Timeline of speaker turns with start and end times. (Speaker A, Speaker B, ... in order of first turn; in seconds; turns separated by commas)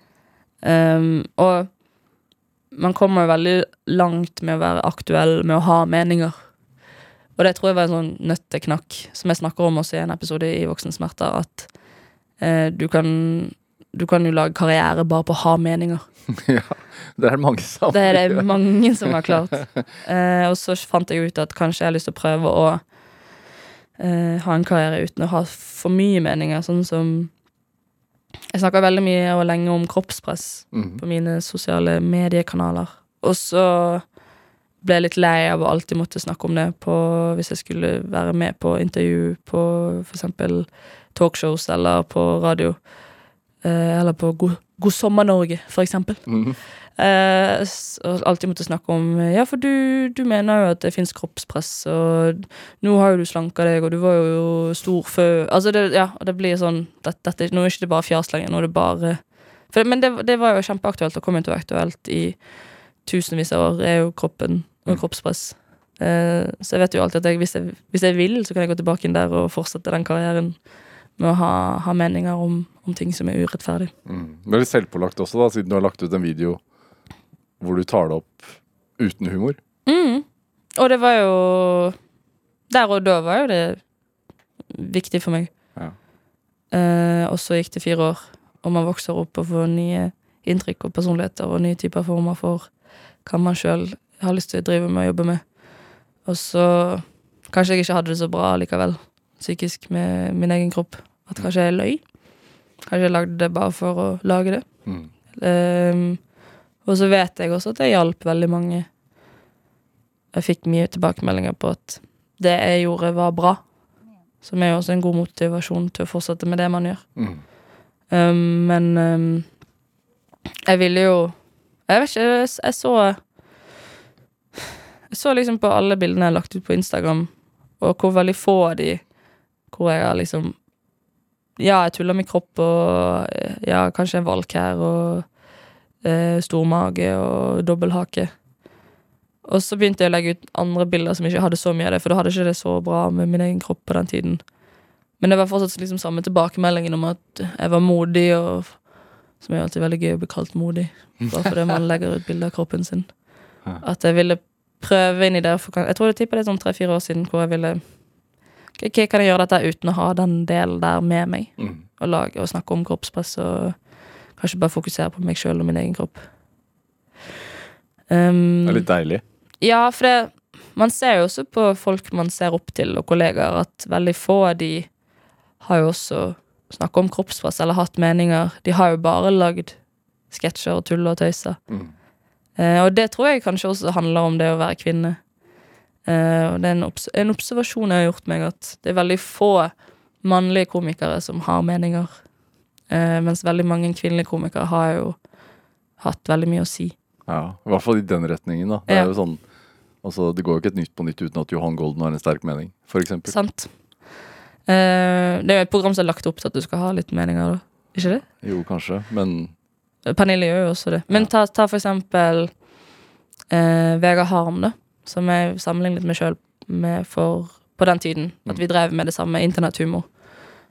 Speaker A: 0.6-1.7, Speaker A: 2.7-6.3, Speaker A: 7.3-11.7, Speaker A: 12.4-16.1, Speaker B: 16.3-19.7, Speaker A: 17.9-22.8, Speaker A: 24.0-27.3, Speaker A: 28.5-34.0, Speaker B: 30.7-31.0, Speaker A: 34.8-42.8, Speaker A: 43.6-46.2, Speaker B: 46.3-46.6, Speaker A: 47.0-70.6, Speaker A: 71.2-73.9, Speaker B: 74.0-76.6, Speaker B: 77.6-79.6, Speaker A: 79.8-80.2, Speaker A: 80.8-82.0, Speaker A: 82.7-83.8, Speaker A: 84.7-85.5, Speaker A: 86.7-92.7, Speaker A: 93.2-95.4, Speaker A: 96.2-102.0, Speaker A: 102.9-104.6, Speaker A: 105.3-106.2, Speaker A: 106.8-108.9, Speaker A: 110.3-113.7, Speaker A: 114.4-117.1, Speaker B: 117.2-117.4, Speaker A: 118.1-119.5, Speaker A: 120.7-121.3, Speaker A: 121.9-123.2, Speaker A: 125.1-129.0, Speaker A: 129.7-130.6, Speaker A: 131.6-135.3, Speaker A: 136.0-138.3, Speaker A: 139.4-144.4, Speaker A: 145.2-153.2, Speaker A: 153.8-157.8, Speaker A: 158.8-166.2, Speaker B: 161.6-161.8, Speaker A: 168.1-168.9, Speaker B: 168.6-169.2, Speaker A: 169.6-174.9, Speaker A: 175.6-179.8, Speaker A: 180.3-181.6, Speaker A: 182.6-185.2, Speaker A: 186.1-192.2, Speaker A: 192.9-195.2, Speaker A: 196.0-196.9, Speaker B: 197.3-199.4, Speaker B: 200.0-203.3, Speaker A: 203.3-203.7, Speaker A: 204.7-208.2, Speaker B: 208.4-209.5, Speaker A: 210.1-212.5, Speaker A: 213.5-220.1